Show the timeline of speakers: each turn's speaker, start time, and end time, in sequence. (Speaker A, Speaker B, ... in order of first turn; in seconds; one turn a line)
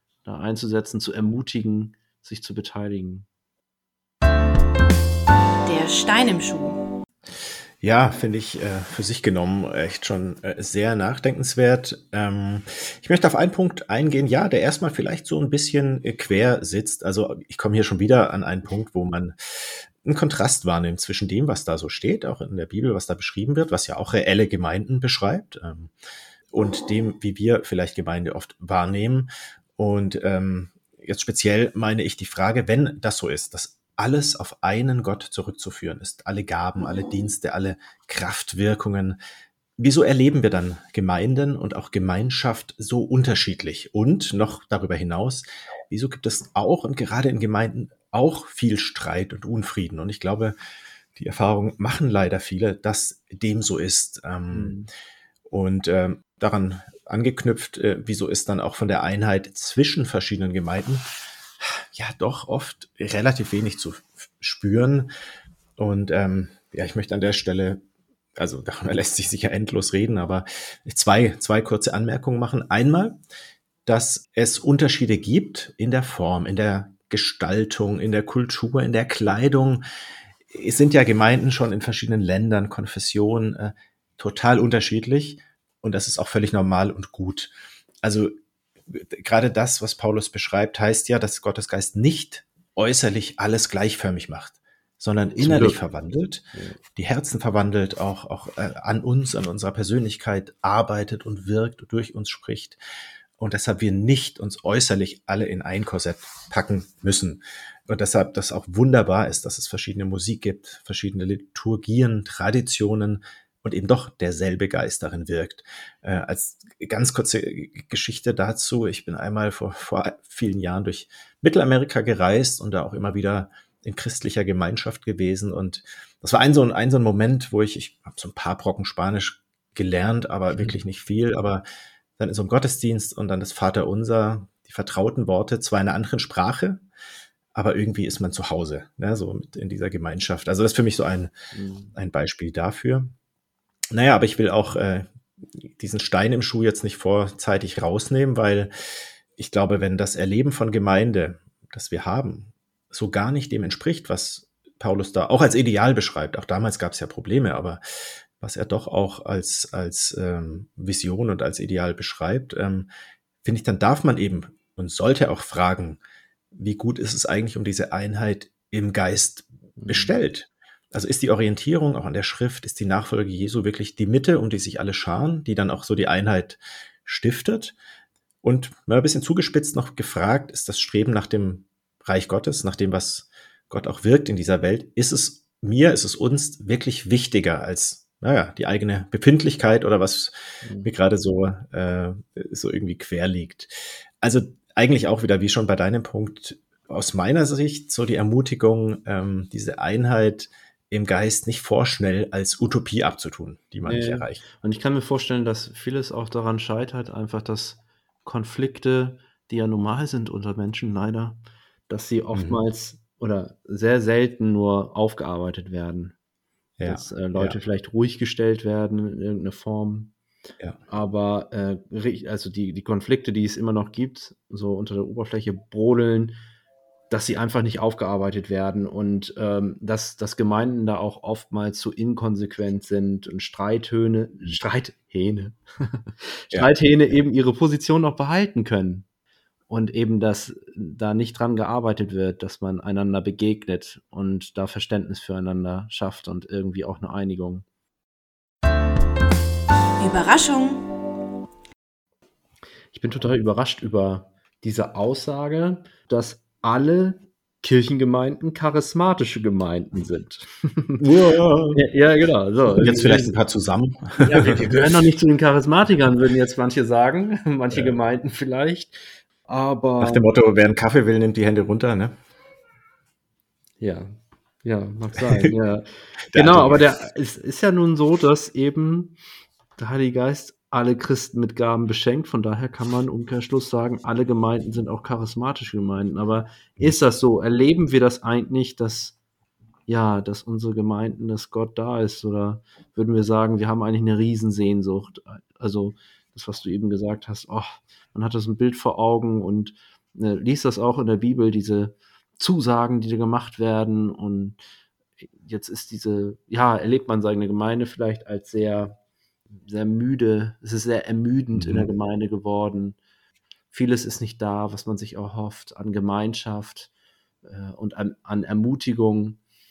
Speaker A: 0.2-3.3
Speaker B: 5.6-6.8
Speaker C: 7.8-25.9
Speaker C: 26.5-39.2
Speaker C: 39.8-50.5
Speaker C: 51.1-54.8
Speaker A: 54.5-54.9
Speaker C: 55.5-61.1
Speaker C: 61.6-65.1
Speaker C: 65.8-67.8
Speaker C: 68.4-73.2
Speaker C: 73.8-79.8
Speaker C: 80.5-88.3
Speaker C: 88.9-102.8
Speaker A: 95.4-95.8
Speaker C: 103.4-131.6
Speaker A: 130.5-130.8
Speaker C: 132.2-136.8
Speaker C: 137.5-141.3
Speaker A: 141.5-141.9
Speaker C: 141.9-143.1
Speaker C: 143.9-157.8
Speaker C: 158.4-162.9
Speaker C: 163.4-166.0
Speaker C: 166.5-177.8
Speaker A: 169.8-170.1
Speaker C: 178.4-204.4
Speaker A: 190.6-190.9
Speaker A: 203.8-216.1
Speaker C: 212.3-212.6
Speaker C: 216.8-217.6
Speaker A: 216.8-220.1
Speaker A: 220.9-226.4
Speaker A: 227.1-239.1
Speaker A: 239.7-247.6
Speaker B: 250.0-250.8
Speaker A: 252.9-261.1
Speaker C: 261.0-261.8
Speaker A: 261.7-263.4
Speaker C: 262.7-264.7
Speaker A: 264.2-270.2
Speaker C: 270.0-272.1
Speaker A: 273.8-279.2
Speaker C: 276.3-276.9
Speaker A: 279.8-289.2
Speaker A: 289.9-304.6
Speaker A: 305.3-308.9
Speaker A: 309.6-313.0
Speaker C: 311.5-311.9
Speaker A: 313.7-316.9
Speaker A: 317.4-319.4